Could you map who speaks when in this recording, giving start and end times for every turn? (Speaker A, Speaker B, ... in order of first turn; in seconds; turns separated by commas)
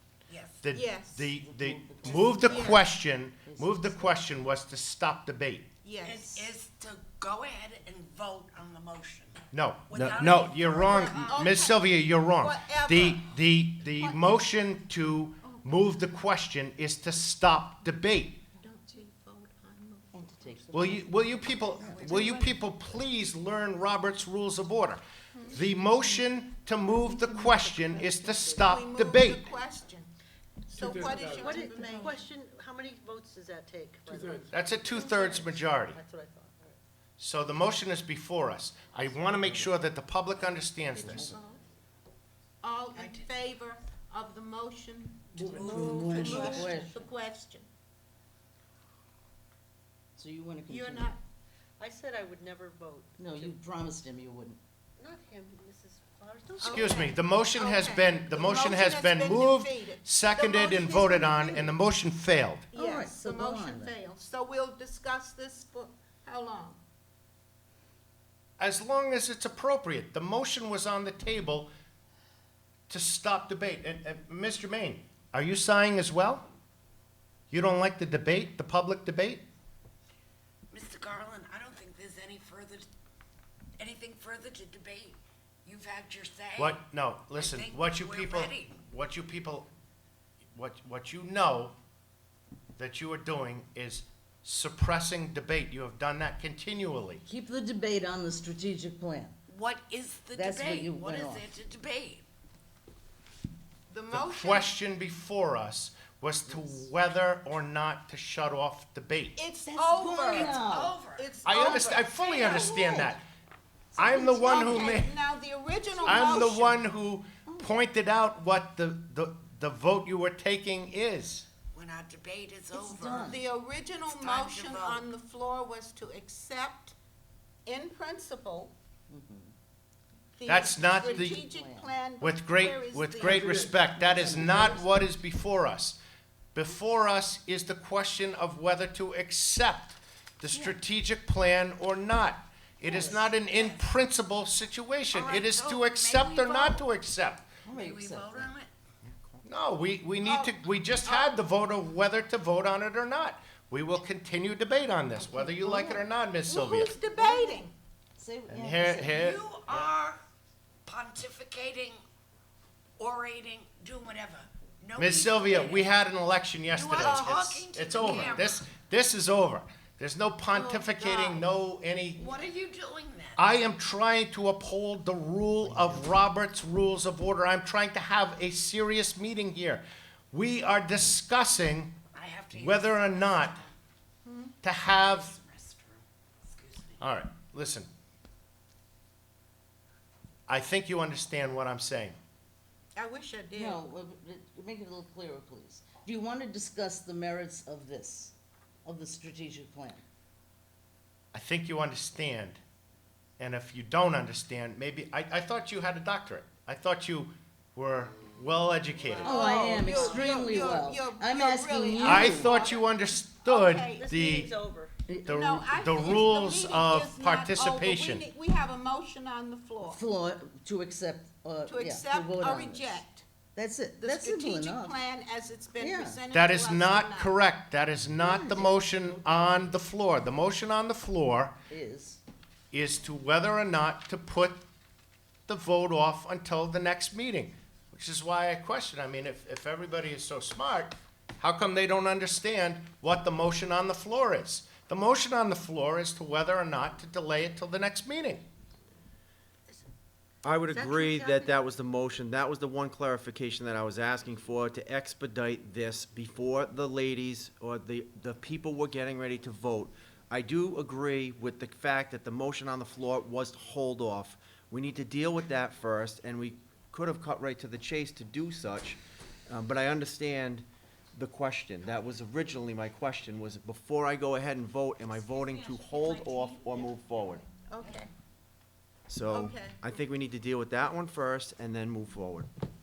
Speaker A: 0.3-0.6, Speaker B: 0.6-5.7, Speaker C: 0.7-1.3, Speaker D: 1.4-2.8, Speaker C: 2.3-2.9, Speaker D: 3.4-4.2, Speaker C: 5.8-6.5, Speaker A: 6.0-11.4, Speaker B: 9.5-18.4, Speaker C: 11.3-13.2, Speaker C: 14.0-14.4, Speaker C: 15.4-15.9, Speaker C: 18.6-20.1, Speaker D: 20.1-22.3, Speaker B: 20.7-29.5, Speaker C: 22.0-22.4, Speaker E: 27.8-28.6, Speaker C: 28.6-30.1, Speaker C: 30.7-32.2, Speaker E: 31.0-36.8, Speaker B: 34.5-36.0, Speaker B: 37.2-41.4, Speaker D: 41.0-41.3, Speaker C: 42.6-47.7, Speaker A: 42.9-43.3, Speaker A: 45.3-46.8, Speaker D: 45.4-47.0, Speaker E: 45.6-46.8, Speaker D: 50.2-51.1, Speaker C: 50.7-51.2, Speaker E: 51.8-53.5, Speaker D: 53.2-54.6, Speaker E: 55.0-57.0, Speaker B: 56.6-62.7, Speaker C: 56.6-61.7, Speaker D: 61.0-61.6, Speaker C: 62.7-66.8, Speaker D: 62.7-63.9, Speaker B: 68.6-71.7, Speaker B: 72.9-76.4, Speaker B: 77.5-79.4, Speaker A: 80.7-82.9, Speaker A: 83.8-86.8, Speaker B: 86.6-89.7, Speaker A: 87.3-88.8, Speaker B: 90.5-91.7, Speaker B: 92.8-97.2, Speaker D: 97.3-99.3, Speaker A: 99.5-102.2, Speaker D: 100.3-101.5, Speaker C: 103.9-104.7, Speaker B: 104.1-109.4, Speaker C: 109.4-113.1, Speaker D: 109.7-111.0, Speaker A: 110.2-112.8, Speaker B: 111.4-113.2, Speaker B: 113.9-115.1, Speaker C: 114.0-116.7, Speaker D: 114.1-114.5, Speaker B: 116.0-121.5, Speaker D: 116.1-116.5, Speaker A: 121.7-123.4, Speaker D: 122.7-123.4, Speaker C: 123.2-126.9, Speaker A: 124.0-125.0, Speaker C: 127.7-128.7, Speaker D: 129.1-129.5, Speaker C: 130.3-134.7, Speaker B: 130.4-131.4, Speaker D: 130.9-131.9, Speaker B: 132.2-136.0, Speaker D: 133.6-135.0, Speaker B: 136.5-147.5, Speaker D: 140.5-140.8, Speaker D: 142.8-143.3, Speaker A: 142.9-143.9, Speaker A: 145.1-146.8, Speaker D: 147.6-148.5, Speaker A: 147.7-148.7, Speaker F: 149.1-149.3, Speaker B: 149.4-156.9, Speaker C: 150.2-151.4, Speaker D: 155.2-156.1, Speaker C: 156.5-157.7, Speaker D: 157.2-157.6, Speaker D: 158.2-159.3, Speaker B: 158.5-159.9, Speaker A: 159.0-160.2, Speaker A: 160.8-162.0, Speaker A: 163.0-165.9, Speaker B: 165.0-172.3, Speaker A: 166.7-168.6, Speaker C: 166.9-167.4, Speaker C: 168.0-168.3, Speaker C: 170.5-171.4, Speaker A: 172.2-173.4, Speaker B: 173.4-181.9, Speaker A: 182.1-183.7, Speaker B: 182.5-183.6, Speaker C: 184.2-184.5, Speaker B: 184.6-185.3, Speaker A: 184.8-187.0, Speaker B: 187.0-187.9, Speaker B: 190.5-192.2, Speaker C: 192.9-193.8, Speaker D: 193.6-200.0, Speaker B: 201.3-202.6, Speaker B: 203.4-209.5, Speaker D: 209.2-212.6, Speaker C: 209.2-214.1, Speaker E: 209.8-210.2, Speaker B: 212.0-214.5, Speaker E: 213.9-214.9, Speaker D: 215.1-215.7, Speaker B: 215.2-218.2, Speaker C: 215.2-220.0, Speaker D: 219.8-223.0, Speaker C: 221.7-223.2, Speaker D: 223.5-225.0, Speaker C: 224.0-227.3, Speaker D: 225.8-226.2, Speaker B: 226.3-231.5, Speaker D: 228.2-228.7, Speaker D: 231.7-232.2, Speaker B: 232.7-234.6, Speaker B: 235.5-248.4, Speaker F: 250.4-277.4, Speaker E: 250.7-251.3, Speaker A: 275.1-276.9, Speaker C: 277.7-278.1, Speaker F: 279.1-282.5, Speaker C: 279.3-279.8